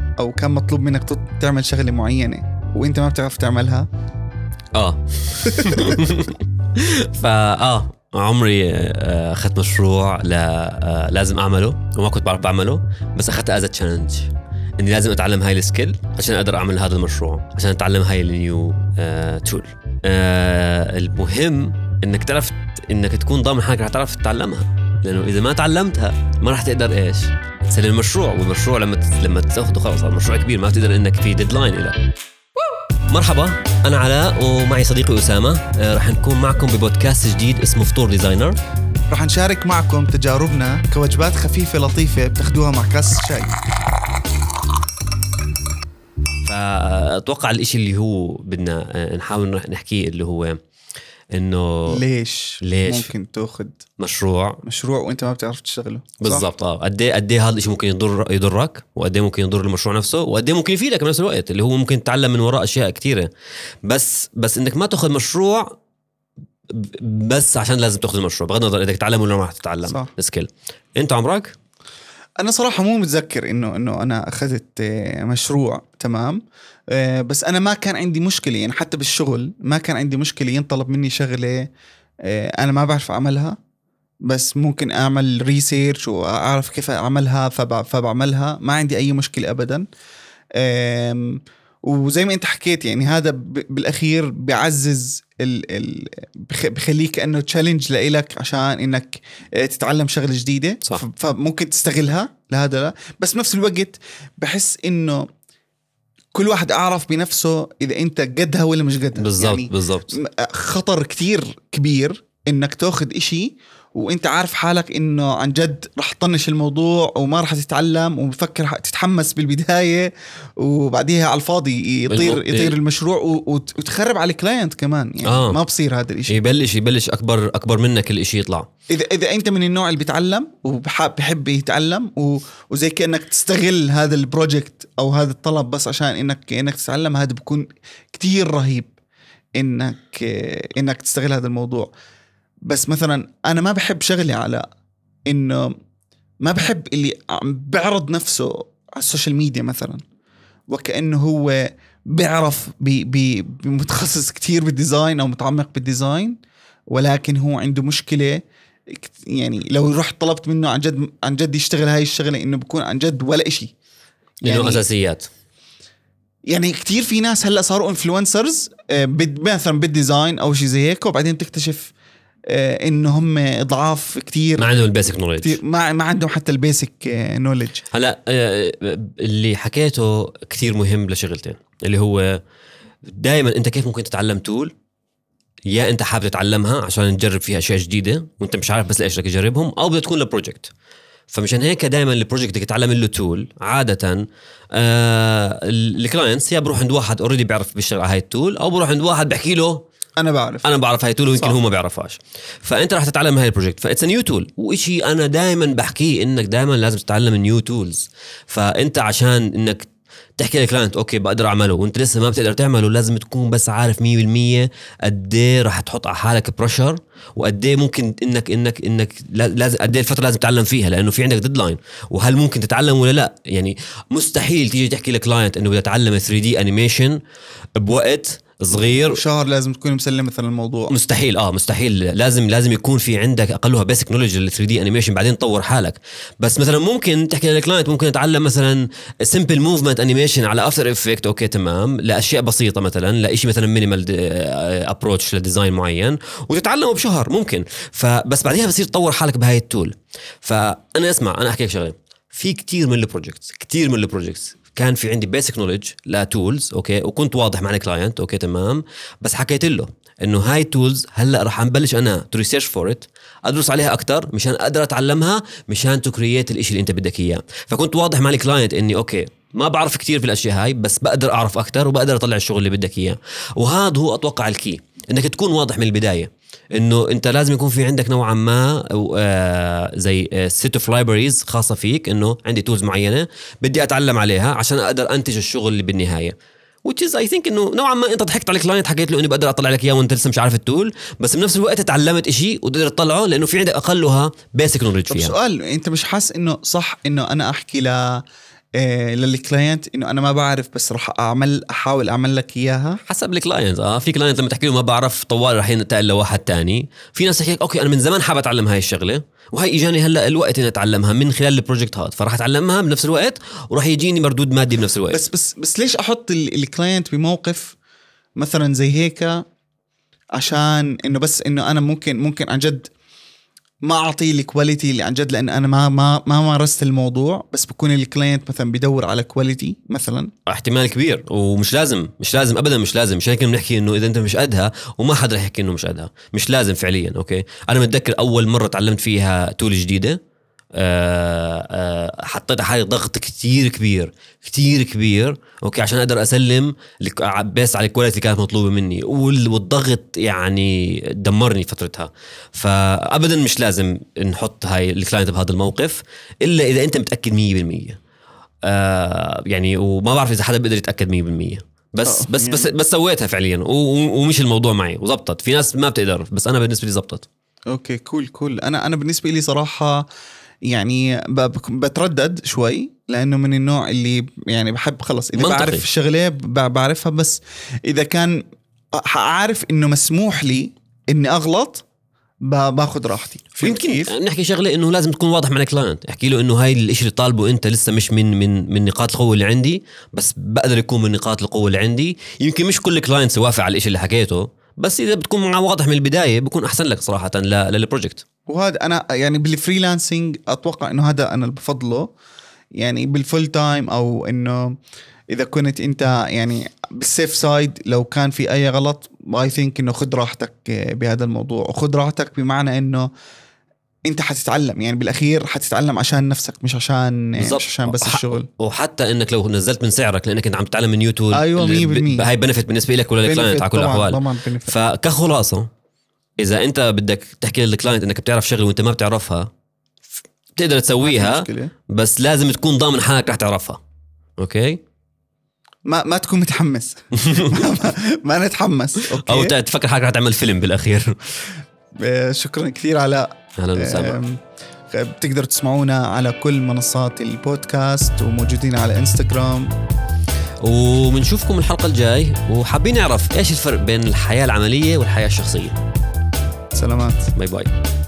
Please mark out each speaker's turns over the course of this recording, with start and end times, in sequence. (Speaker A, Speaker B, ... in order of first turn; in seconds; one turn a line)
Speaker A: 0.2-3.9
Speaker B: 4.8-32.0
Speaker A: 5.5-6.0
Speaker B: 33.1-38.6
Speaker A: 39.1-43.6
Speaker B: 46.4-50.6
Speaker B: 51.3-52.0
Speaker A: 51.9-53.8
Speaker B: 52.6-53.1
Speaker B: 54.0-54.6
Speaker A: 54.6-56.5
Speaker B: 56.2-63.3
Speaker B: 63.9-65.8
Speaker B: 66.7-71.5
Speaker A: 69.9-70.1
Speaker A: 72.4-76.4
Speaker A: 76.9-81.7
Speaker A: 82.2-83.6
Speaker A: 84.3-89.9
Speaker A: 90.6-105.3
Speaker A: 106.3-126.4
Speaker B: 109.2-110.1
Speaker B: 122.1-122.8
Speaker B: 125.2-125.6
Speaker B: 126.3-128.7
Speaker A: 128.9-138.9
Speaker A: 139.6-141.9
Speaker A: 142.7-144.7
Speaker A: 145.3-145.8
Speaker A: 146.4-150.0
Speaker A: 150.7-156.4
Speaker A: 156.9-163.7
Speaker B: 164.4-165.3
Speaker A: 164.4-164.8
Speaker A: 166.5-171.9
Speaker A: 172.5-174.7
Speaker B: 174.6-175.6
Speaker A: 175.4-177.9
Speaker B: 177.9-182.4
Speaker B: 183.1-184.7
Speaker B: 185.7-190.7
Speaker B: 191.3-199.8
Speaker A: 200.2-200.7
Speaker B: 200.6-209.9
Speaker B: 210.4-227.2
Speaker B: 227.8-229.2
Speaker A: 228.7-230.9
Speaker B: 230.9-295.3
Speaker A: 295.1-298.2
Speaker A: 298.8-303.0
Speaker B: 303.1-315.2
Speaker A: 315.1-317.8
Speaker A: 318.4-319.4
Speaker A: 320.4-322.9
Speaker A: 323.8-330.3
Speaker B: 330.5-340.2
Speaker B: 340.8-358.0
Speaker B: 358.7-367.3
Speaker A: 362.1-362.7
Speaker A: 367.7-370.1
Speaker A: 370.7-378.4
Speaker B: 375.4-375.8
Speaker A: 379.0-381.8
Speaker A: 382.5-384.1
Speaker B: 383.6-398.2
Speaker A: 398.5-402.1
Speaker A: 402.8-404.8
Speaker A: 405.3-413.1
Speaker A: 414.1-418.5
Speaker B: 417.4-425.7
Speaker A: 421.4-422.3
Speaker A: 423.2-424.7
Speaker B: 426.4-429.5
Speaker B: 430.6-433.8
Speaker A: 431.0-431.7
Speaker B: 434.4-434.8
Speaker A: 435.9-439.5
Speaker B: 437.2-437.6
Speaker B: 439.2-441.3
Speaker A: 442.0-449.7
Speaker B: 443.6-444.2
Speaker B: 450.6-455.8
Speaker A: 456.7-457.3
Speaker B: 457.4-457.7